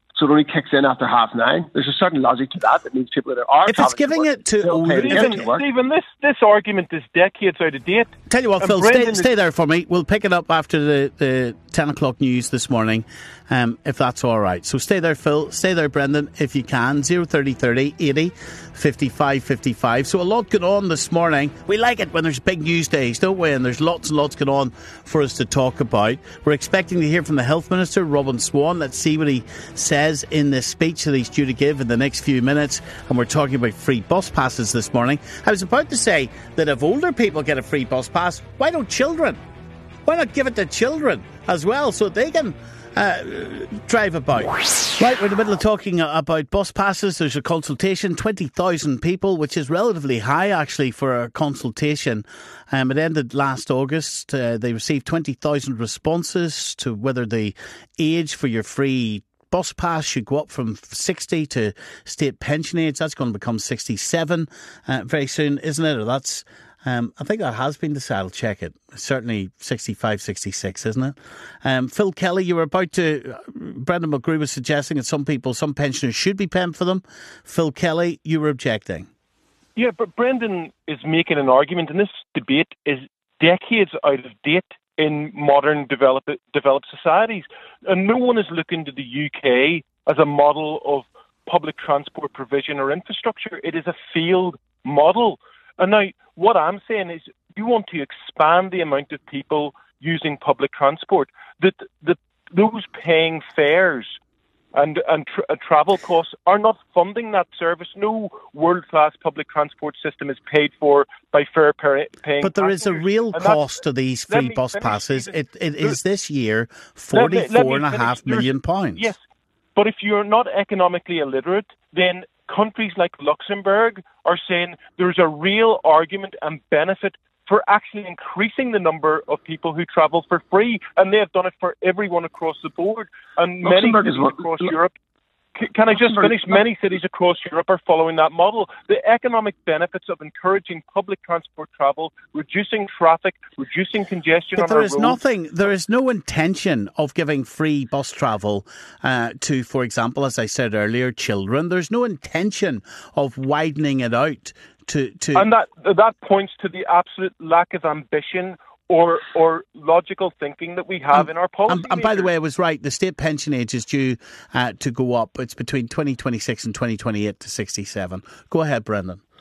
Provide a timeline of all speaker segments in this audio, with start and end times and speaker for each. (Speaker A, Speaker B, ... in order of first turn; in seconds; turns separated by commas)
Speaker A: 0.1-5.6, Speaker B: 3.7-5.5, Speaker C: 4.9-9.3, Speaker B: 8.3-39.4, Speaker B: 40.0-79.1, Speaker C: 79.8-104.2, Speaker C: 104.7-113.7, Speaker B: 112.4-119.1, Speaker C: 114.3-116.0, Speaker C: 117.1-119.2, Speaker C: 119.8-134.9, Speaker A: 133.6-134.7, Speaker C: 135.6-145.2, Speaker A: 136.0-136.6, Speaker B: 144.6-155.5, Speaker C: 155.3-162.3, Speaker B: 161.1-169.2